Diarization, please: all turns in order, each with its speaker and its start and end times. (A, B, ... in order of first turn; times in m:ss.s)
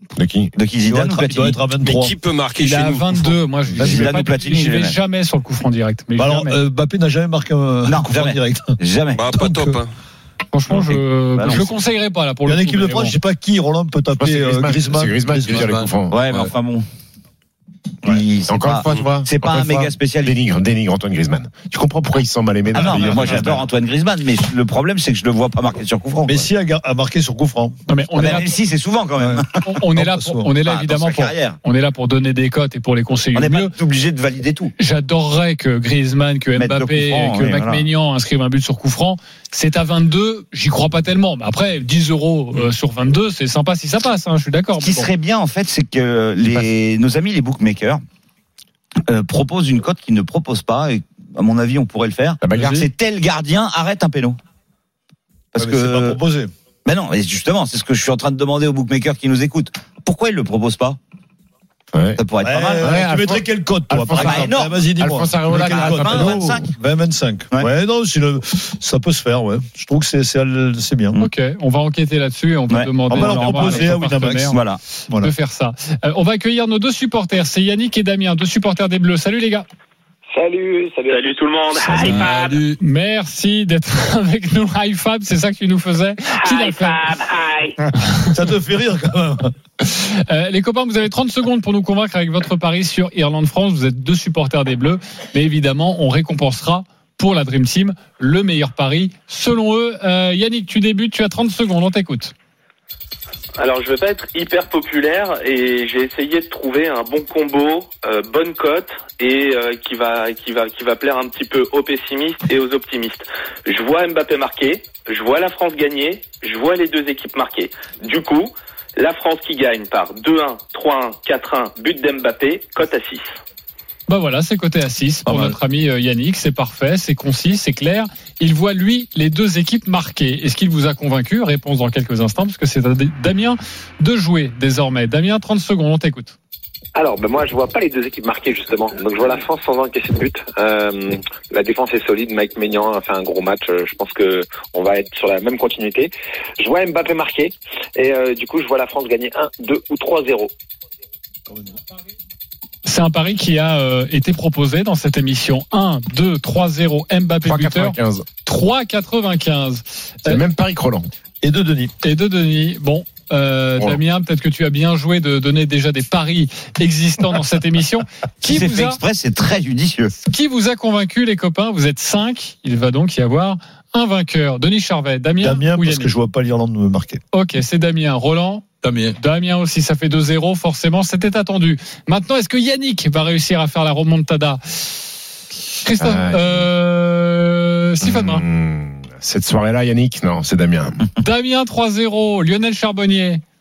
0:00.2-0:00.5 A
0:00.6-0:01.6 B
0:00.9-0:02.1 C
0:01.8-0:03.4 D
0:02.6-0:06.6 E
0:03.8-0:04.2 C
0:03.8-0:05.0 B
0:06.2-0:08.8 C
0:07.9-0:09.2 B
0:09.1-0:09.9 D
0:09.3-0:09.8 C
0:10.5-0:13.2 E
0:11.4-0:11.7 B
0:12.5-0:15.7 C
0:14.2-0:16.2 A
0:15.5-0:16.5 F
0:16.1-0:16.8 B
0:18.0-0:20.4 B
0:18.5-0:23.6 A
0:22.7-0:26.5 B
0:26.3-0:27.8 C
0:27.9-0:28.6 E
0:28.2-0:29.5 B
0:29.2-0:30.5 C
0:29.6-0:33.7 E
0:30.6-0:31.6 B
0:33.3-0:34.7 B
0:34.8-0:45.1 E
0:36.6-0:37.8 B
0:44.8-0:48.0 B
0:49.1-0:54.4 B
0:52.4-0:52.8 A
0:52.5-0:52.8 E
0:55.5-0:56.2 B
0:55.6-0:56.5 C
0:56.8-1:01.0 B
1:01.9-1:02.2 A
1:02.2-1:03.0 B
1:02.4-1:11.2 C
1:02.8-1:06.6 A
1:04.1-1:04.8 B
1:05.5-1:06.6 B
1:11.2-1:14.6 E
1:12.7-1:13.9 B
1:13.1-1:15.3 C
1:14.5-1:14.8 B
1:15.2-1:19.7 E
1:20.3-1:21.4 G
1:21.1-1:22.6 H
1:21.8-1:22.8 F
1:22.8-1:27.1 E
1:26.4-1:27.8 H
1:28.3-1:29.5 C
1:29.8-1:42.3 E
1:43.6-2:03.3 H
2:04.1-2:16.4 E
2:05.3-2:05.5 F
2:17.0-2:30.5 G
2:32.9-2:40.4 E
2:37.4-2:38.2 A
2:40.3-2:41.1 A
2:41.4-2:41.9 C
2:42.0-2:49.0 E
2:48.4-2:50.1 B
2:50.3-2:56.1 E
2:55.4-2:57.2 C
2:57.3-2:58.7 E
2:58.8-2:59.2 F
2:59.2-3:04.8 E
3:05.8-3:08.4 E
3:06.0-3:06.7 A
3:08.0-3:11.0 A
3:11.2-3:13.4 E